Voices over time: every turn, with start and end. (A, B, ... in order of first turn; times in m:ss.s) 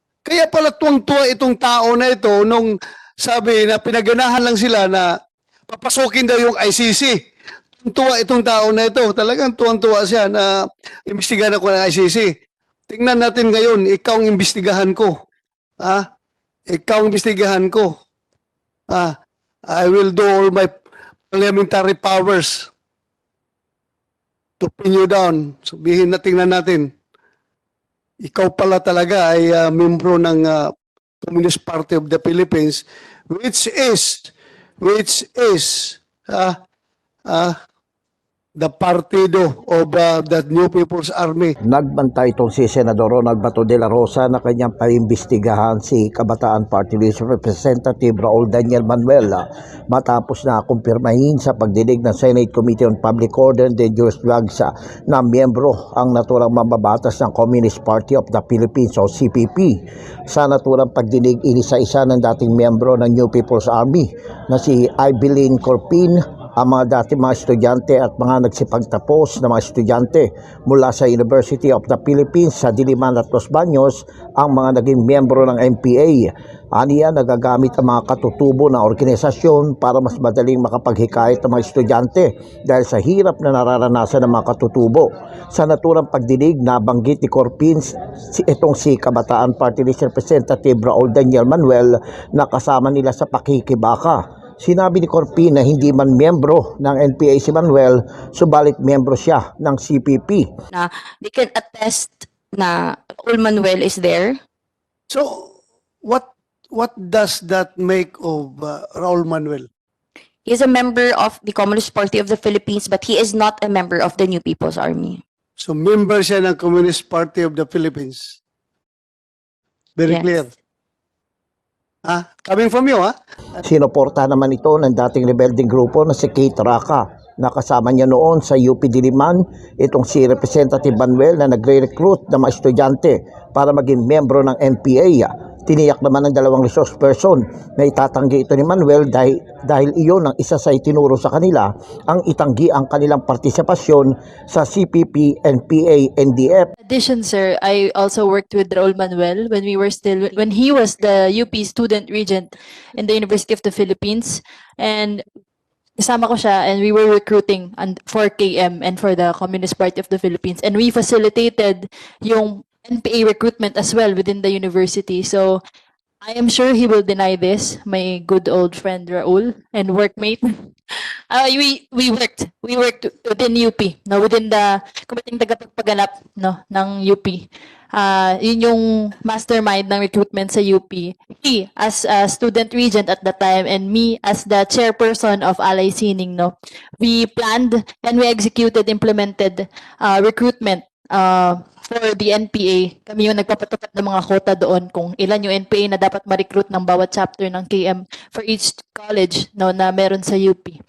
0:00.2-0:05.1 A
0:05.7-0:07.2 A
0:07.8-0:10.5 A
0:11.1-0:12.3 A
0:12.9-0:15.1 A
0:16.7-0:17.9 A
0:19.7-0:20.7 A
0:21.3-0:22.7 A
0:24.6-0:26.9 A
0:28.2-0:30.7 A
0:31.2-0:36.5 A
0:37.3-0:37.5 A
0:38.6-0:41.6 A
0:41.6-1:40.5 B
1:40.7-1:44.4 C
1:45.1-1:49.7 A
1:50.4-1:55.2 C
1:55.6-1:58.4 A
2:00.0-2:00.5 A
2:02.0-2:03.1 A
2:03.6-2:26.7 B
2:26.8-2:35.2 D
2:36.0-2:45.6 D
2:46.2-3:20.8 D